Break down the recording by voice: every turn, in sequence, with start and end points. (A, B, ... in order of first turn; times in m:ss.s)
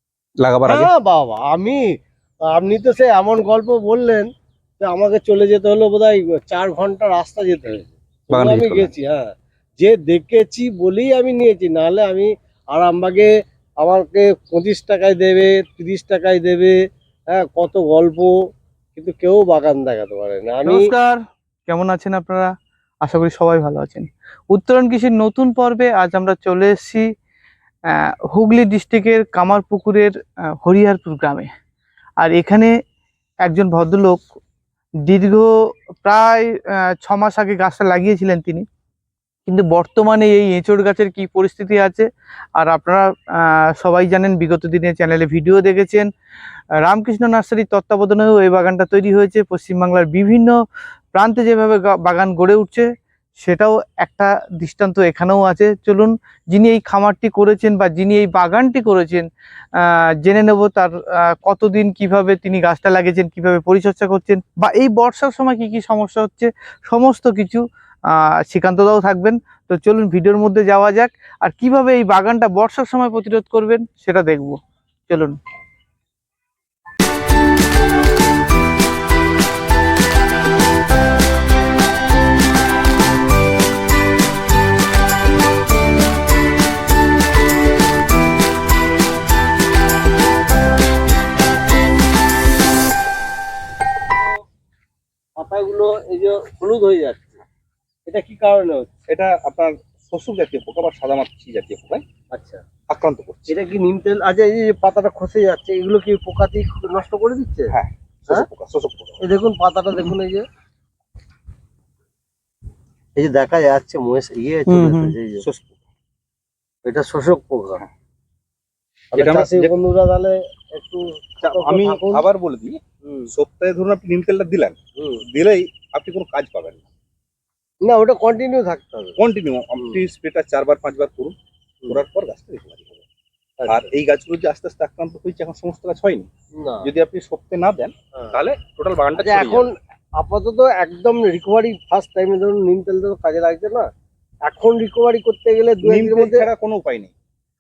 0:00.4-0:00.9 A
0:00.6-0:01.8 B
0:02.5-0:04.3 B
0:04.8-0:09.3 B
0:08.3-0:08.9 A
0:09.8-0:16.7 B
0:17.3-0:18.3 B
0:18.9-0:20.9 B
0:20.6-0:22.5 C
0:23.0-0:27.1 C
0:27.9-0:31.5 C
0:32.2-0:32.7 C
0:33.4-0:34.2 C
0:35.0-0:35.5 C
0:36.0-0:38.6 C
0:39.5-0:46.1 C
0:46.8-0:50.6 C
0:51.1-0:52.9 C
0:53.4-1:15.4 C
1:35.4-1:37.4 B
1:38.1-1:38.9 B
1:39.1-1:42.0 A
1:42.3-1:42.6 B
1:42.9-1:43.6 A
1:43.5-1:47.7 B
1:47.7-1:49.2 A
1:49.2-1:50.5 B
1:53.2-1:55.4 B
1:54.8-1:55.1 C
1:55.4-1:55.8 A
1:56.8-1:57.8 B
1:59.1-2:02.2 B
1:59.1-1:59.7 A
2:01.4-2:02.8 A
2:03.0-2:03.3 B
2:03.3-2:04.8 A
2:05.0-2:05.2 B
2:05.3-2:06.8 A
2:07.8-2:09.2 B
2:09.2-2:11.4 A
2:11.9-2:13.0 A
2:13.7-2:16.3 A
2:16.6-2:16.9 B
2:16.8-2:19.7 A
2:19.2-2:23.9 B
2:24.5-2:26.5 B
2:25.8-2:27.1 A